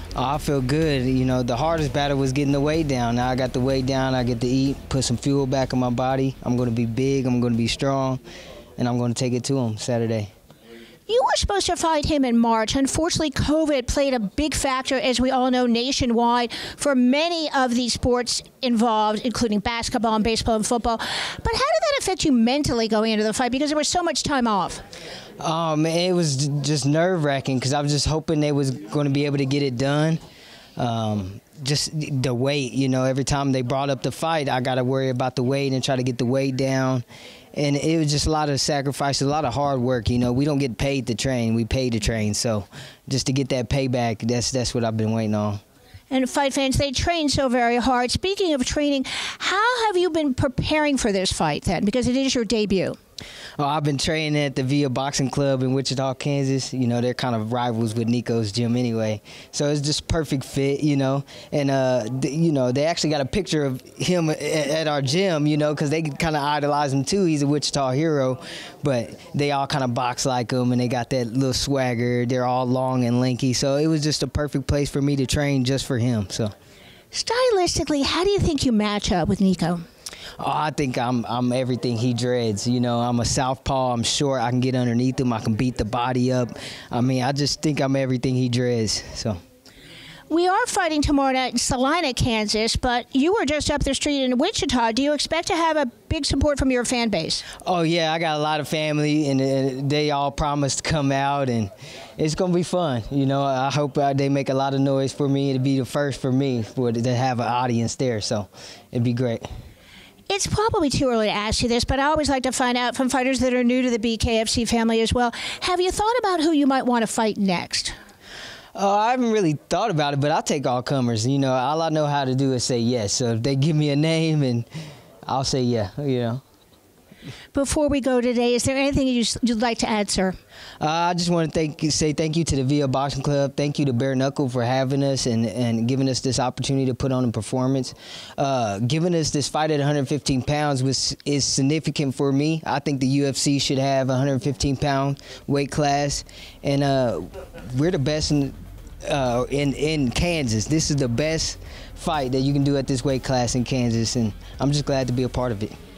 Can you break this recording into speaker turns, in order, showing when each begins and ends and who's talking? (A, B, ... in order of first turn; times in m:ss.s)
0:00.2-0:08.2 A
0:08.8-0:10.3 A
0:11.1-0:24.8 B
0:25.4-0:30.2 A
0:30.8-0:45.6 A
0:46.1-0:53.0 B
0:53.6-1:16.5 A
1:17.1-1:19.8 B
1:20.4-1:29.4 A
1:30.3-1:37.4 B
1:37.6-1:49.4 A
1:50.3-1:57.9 B
1:58.7-2:04.7 A
2:05.2-2:06.4 A
2:07.5-2:10.4 B
2:10.8-2:35.8 A